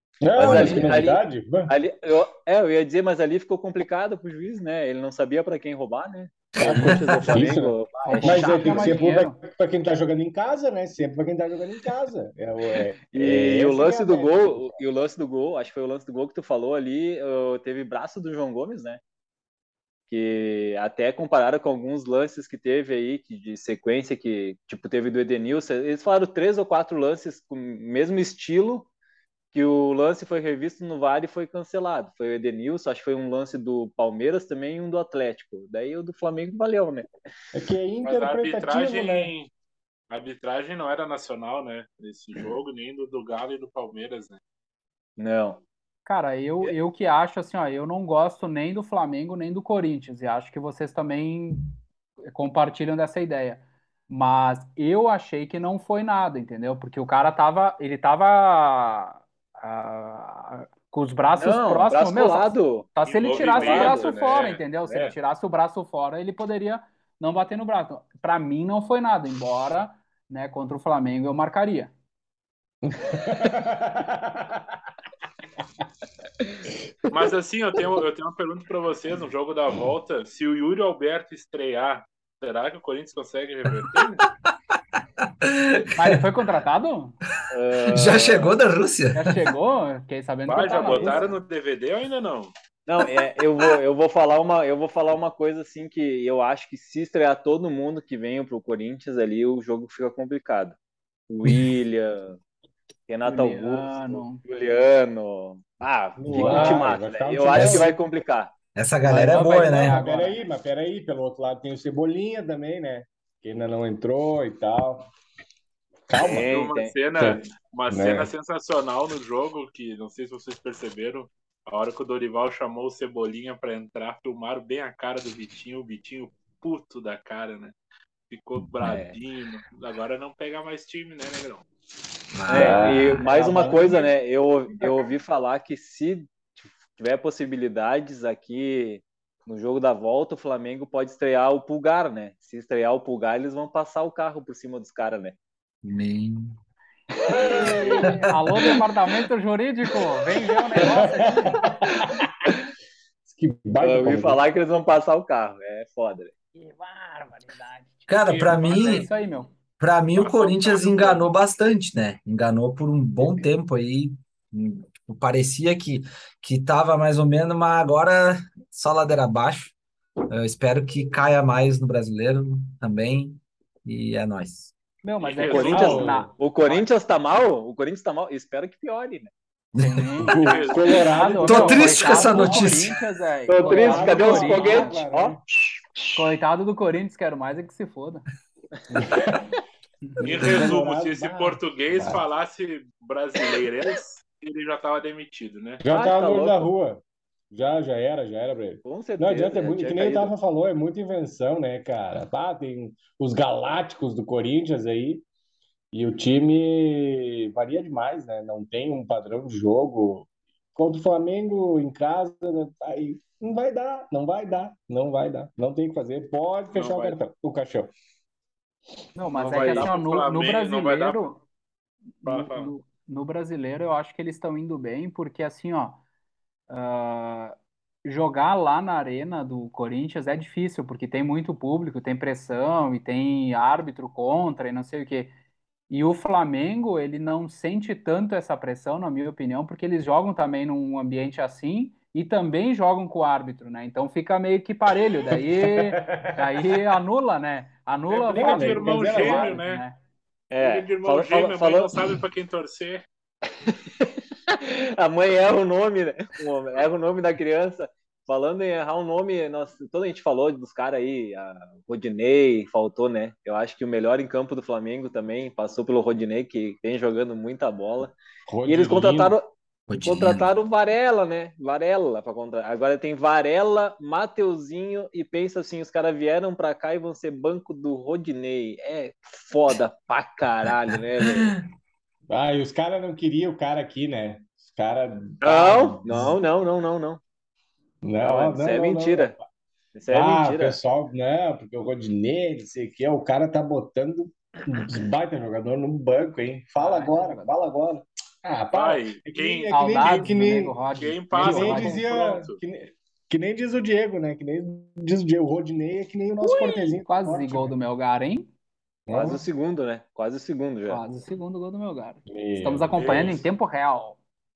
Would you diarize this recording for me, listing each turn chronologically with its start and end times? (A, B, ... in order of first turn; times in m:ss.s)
0:00.2-0:01.7 A
0:00.4-0:09.0 B
0:00.4-0:01.0 C
0:06.6-0:14.8 A
0:08.0-0:09.4 C
0:13.1-0:19.0 B
0:20.1-0:28.9 B
0:29.5-0:37.0 B
0:37.5-0:39.3 A
0:38.0-0:39.5 D
0:40.1-0:44.4 D
0:45.2-0:45.6 B
0:46.0-0:51.7 C
0:52.3-1:11.9 C
1:01.4-1:04.2 B
1:03.0-1:05.1 D
1:12.8-1:14.6 A
1:17.1-1:24.2 D
1:25.4-1:26.2 E
1:26.0-1:27.2 C
1:27.5-1:28.6 B
1:27.9-1:29.4 E
1:29.1-1:31.4 C
1:30.4-1:32.5 D
1:32.9-1:40.8 B
1:41.3-1:42.4 B
1:43.1-1:48.5 B
1:43.2-1:44.4 C
1:46.2-1:47.9 A
1:47.5-1:48.0 E
1:48.7-1:50.0 E
1:49.1-1:55.1 A
1:49.1-1:50.4 C
1:56.1-1:56.5 A
1:56.2-1:56.9 B
1:56.2-2:07.7 D
1:57.2-1:58.3 A
2:08.3-2:11.6 D
2:08.8-2:09.2 B
2:12.3-2:13.2 E
2:12.5-2:25.4 B
2:12.5-2:14.1 A
2:25.8-2:26.6 E
2:27.3-2:28.1 B
2:27.3-2:31.7 C
2:30.8-2:32.3 A
2:33.2-2:34.4 A
2:33.8-2:36.3 B
2:36.5-2:39.5 C
2:38.1-2:39.1 E
2:38.3-2:39.1 D
2:39.8-2:49.7 E
2:40.1-2:41.3 D
2:50.3-2:54.7 E
2:55.0-2:56.8 C
2:55.2-2:56.1 D
2:55.4-2:59.3 B
2:55.7-2:56.3 A
2:59.8-3:00.3 E
2:59.8-3:05.0 C
3:00.3-3:02.6 A
3:00.4-3:01.1 D
3:01.4-3:03.0 E
3:03.5-3:06.1 B
3:03.6-3:05.4 A
3:06.1-3:08.2 C
3:08.9-3:09.5 A
3:10.2-3:12.2 A
3:10.2-3:15.8 D
3:15.8-3:25.2 A
3:15.9-3:16.7 B
3:18.8-3:20.3 B
3:25.9-3:37.9 A
3:36.7-3:37.2 D
3:39.1-3:41.4 C
3:39.3-3:41.2 D
3:39.5-3:39.9 B
3:42.2-3:46.0 C
3:42.2-3:42.7 D
3:46.7-3:55.4 C
3:55.9-4:10.0 C
4:05.4-4:06.6 A
4:08.1-4:09.8 D
4:08.3-4:09.6 A
4:10.5-4:12.0 B
4:10.6-4:13.0 D
4:13.7-4:29.5 B
4:28.5-4:29.4 A
4:29.9-4:30.5 E
4:30.0-4:41.5 B
4:42.3-4:46.3 A
4:45.4-4:47.2 B
4:48.0-4:49.4 A
4:48.2-4:49.4 B
4:49.9-4:50.8 B
4:50.1-5:07.7 A
4:56.8-4:57.5 C
4:58.7-5:02.6 D
4:59.7-5:02.0 C
5:06.4-5:08.5 C
5:09.1-5:09.4 A
5:09.1-5:11.0 B
5:10.9-5:14.2 C
5:12.3-5:13.4 A